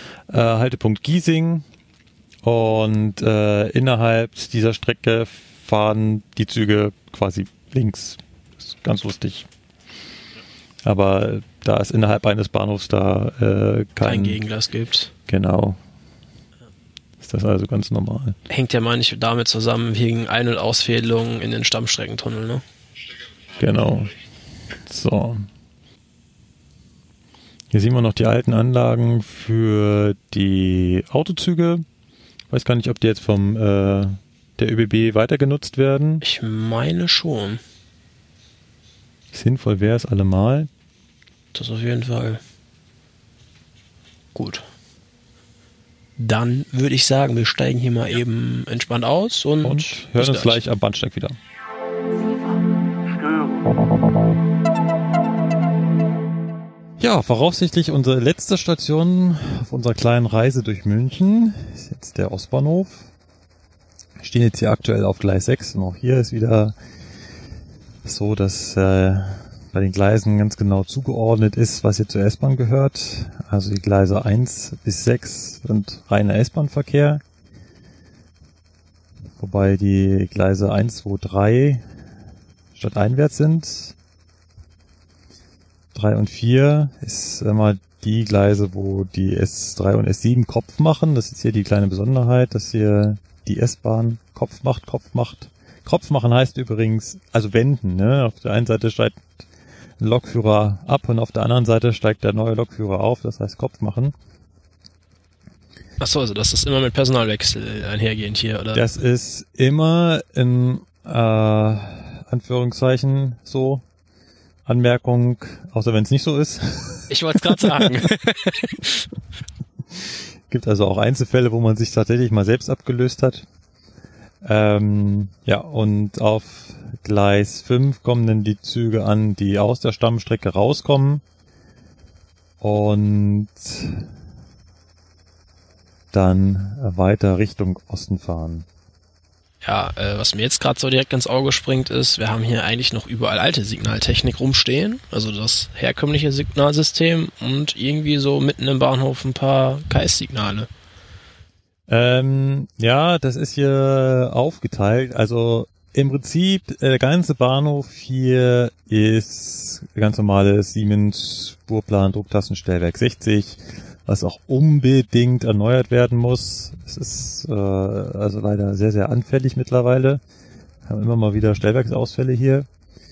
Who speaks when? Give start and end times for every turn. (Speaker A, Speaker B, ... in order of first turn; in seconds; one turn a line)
Speaker A: 0.3-1.6
Speaker A: 2.4-9.5
Speaker A: 10.8-14.4
Speaker B: 14.0-15.1
Speaker A: 15.3-15.8
Speaker A: 17.2-18.4
Speaker B: 18.5-22.6
Speaker A: 23.6-24.1
Speaker A: 24.8-25.5
Speaker A: 27.7-31.8
Speaker A: 32.5-36.2
Speaker B: 36.2-37.6
Speaker A: 39.3-40.7
Speaker B: 41.5-42.4
Speaker B: 44.3-44.6
Speaker B: 46.2-50.6
Speaker A: 49.6-51.4
Speaker A: 57.0-63.1
Speaker A: 64.2-66.7
Speaker A: 68.0-77.2
Speaker A: 79.4-81.8
Speaker A: 82.8-83.9
Speaker A: 85.9-99.2
Speaker A: 100.0-104.1
Speaker B: 106.0-108.9
Speaker A: 108.7-113.8
Speaker A: 114.7-118.1
Speaker B: 117.1-119.1
Speaker A: 120.5-123.5
Speaker A: 124.4-131.2
Speaker A: 132.6-134.1
Speaker A: 136.1-138.7
Speaker B: 139.6-150.7
Speaker A: 151.9-170.2
Speaker A: 170.8-172.7